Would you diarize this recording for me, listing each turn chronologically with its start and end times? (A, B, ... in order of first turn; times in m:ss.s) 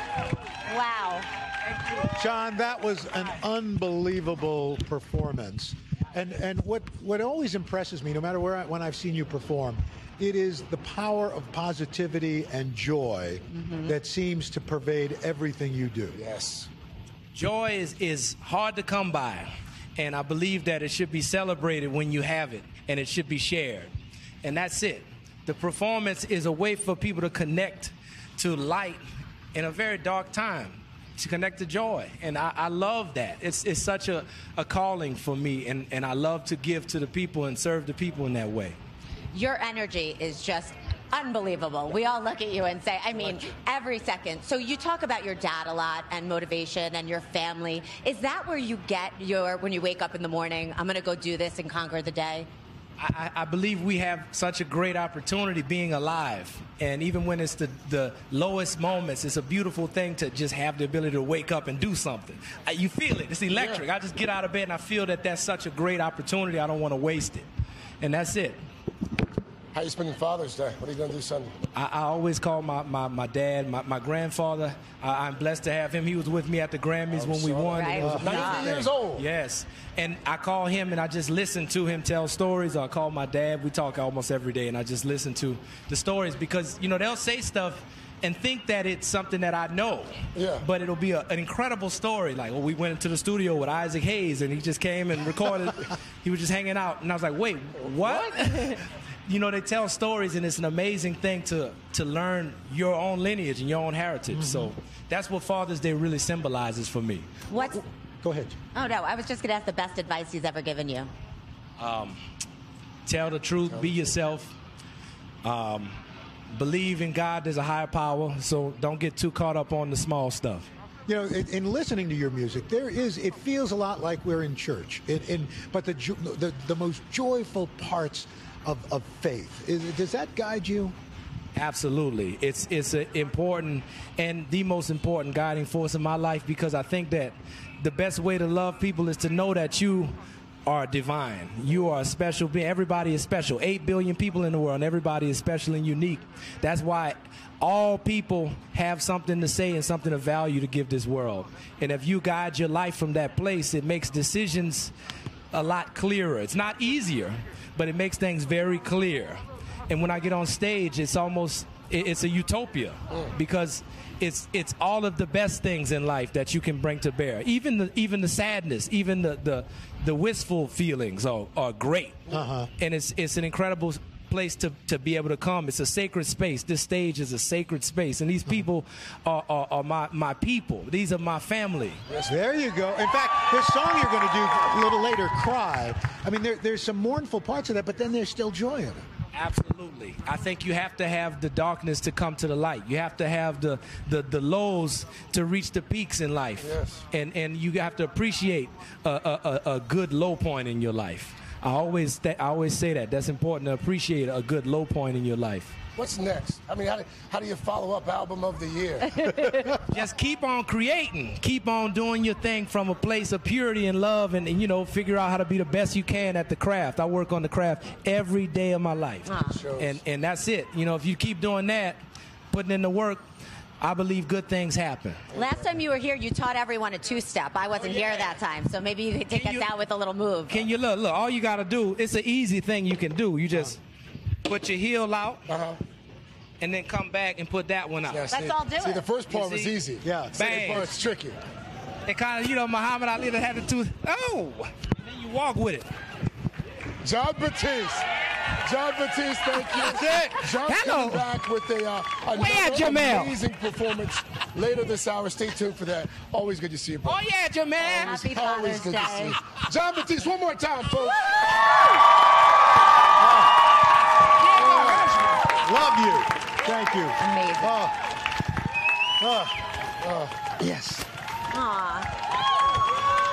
0:00.6-0:01.3 A
0:02.0-0:16.2 B
0:13.6-0:13.9 A
0:16.1-0:16.7 C
0:17.3-0:23.9 D
0:24.4-0:29.0 D
0:29.5-0:38.8 D
0:39.3-0:52.5 A
0:53.0-1:07.5 D
1:03.5-1:03.8 C
1:08.0-1:08.6 D
1:09.7-1:11.5 C
1:11.7-1:47.3 D
1:17.1-1:19.2 C
1:17.7-1:18.8 A
1:18.0-1:18.3 B
1:30.3-1:30.6 C
1:44.3-1:44.7 B
1:47.5-1:47.8 A
1:48.2-1:48.6 B
1:48.7-1:51.1 A
1:51.8-1:52.2 D
1:53.0-1:54.5 D
1:55.4-1:56.0 D
1:56.5-2:00.7 D
2:01.1-2:10.9 B
2:11.5-2:20.1 D
2:20.6-2:34.9 D
2:35.5-3:02.0 D
2:52.3-2:52.7 B
3:02.1-3:02.3 C
3:02.2-3:09.0 B
3:09.3-3:25.8 D
3:16.6-3:17.0 C
3:26.0-3:29.2 C
3:29.2-3:29.7 A
3:29.7-3:42.0 D
3:39.2-3:39.6 A
3:39.4-3:40.0 C
3:42.5-3:43.2 D
3:43.8-3:45.2 D
3:45.3-3:50.6 A
3:49.3-3:49.7 D
3:50.5-3:53.8 D
3:54.4-3:55.5 D
3:55.5-3:55.8 C
3:56.6-3:58.6 D
3:58.0-4:01.4 C
3:58.3-3:59.0 A
3:59.3-3:59.8 D
4:00.0-4:00.4 B
4:00.3-4:00.9 D
4:02.0-4:05.9 D
4:07.0-4:08.0 C
4:08.6-4:17.2 C
4:09.5-4:11.3 D
4:12.3-4:13.4 D
4:17.0-4:18.3 D
4:17.8-4:21.3 C
4:17.9-4:19.4 A
4:24.4-4:25.5 D
4:24.5-4:25.1 C
4:25.5-4:27.9 B
4:27.2-4:27.8 A
4:29.2-4:29.7 B
4:30.0-4:30.5 C
4:30.5-4:31.0 B
4:31.5-4:32.1 A